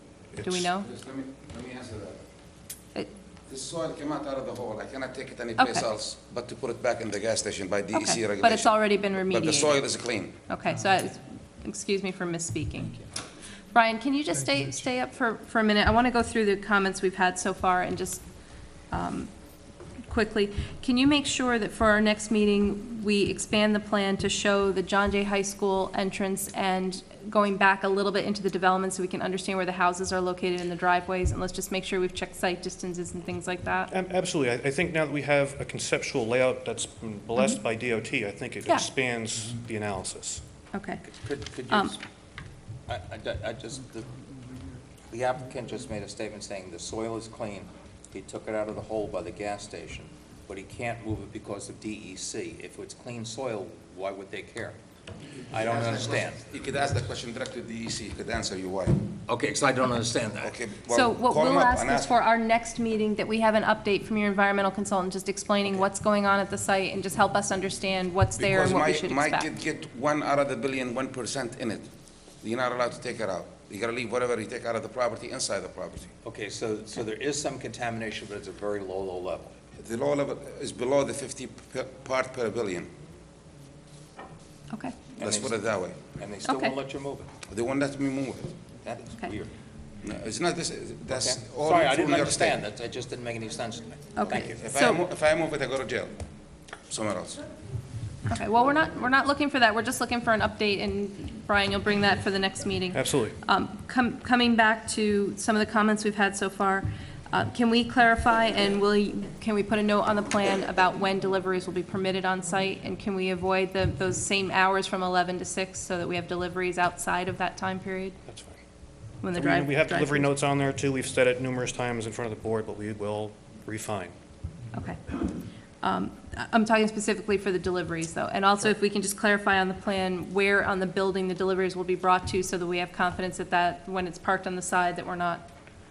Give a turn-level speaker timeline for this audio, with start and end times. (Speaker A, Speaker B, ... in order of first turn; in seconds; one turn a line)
Speaker A: 0.3-0.7
Speaker B: 0.4-0.9
Speaker C: 0.8-2.2
Speaker C: 3.5-10.4
Speaker B: 5.6-5.9
Speaker B: 7.9-9.8
Speaker B: 10.5-13.1
Speaker B: 13.7-18.2
Speaker B: 18.9-19.3
Speaker B: 20.1-33.9
Speaker A: 33.9-40.4
Speaker B: 40.7-41.0
Speaker D: 41.0-42.0
Speaker B: 41.7-42.0
Speaker D: 42.9-44.1
Speaker D: 45.1-54.8
Speaker D: 55.5-56.4
Speaker C: 55.5-59.1
Speaker D: 59.3-60.6
Speaker C: 60.4-62.2
Speaker B: 60.9-69.5
Speaker C: 68.4-71.9
Speaker C: 72.4-76.1
Speaker D: 76.2-79.5
Speaker C: 79.8-82.9
Speaker B: 84.7-85.0
Speaker D: 85.2-85.6
Speaker C: 85.2-86.1
Speaker D: 86.1-87.3
Speaker B: 86.4-86.8
Speaker C: 87.5-88.6
Speaker D: 88.8-89.5
Speaker C: 90.0-92.6
Speaker D: 91.1-94.6
Speaker B: 94.1-95.0
Speaker C: 94.5-96.2
Speaker C: 96.9-97.4
Speaker B: 98.3-118.2
Speaker A: 102.9-103.4
Speaker A: 118.3-118.6
Speaker B: 119.2-120.3
Speaker A: 119.3-124.2
Speaker B: 124.7-125.2
Speaker B: 125.8-135.5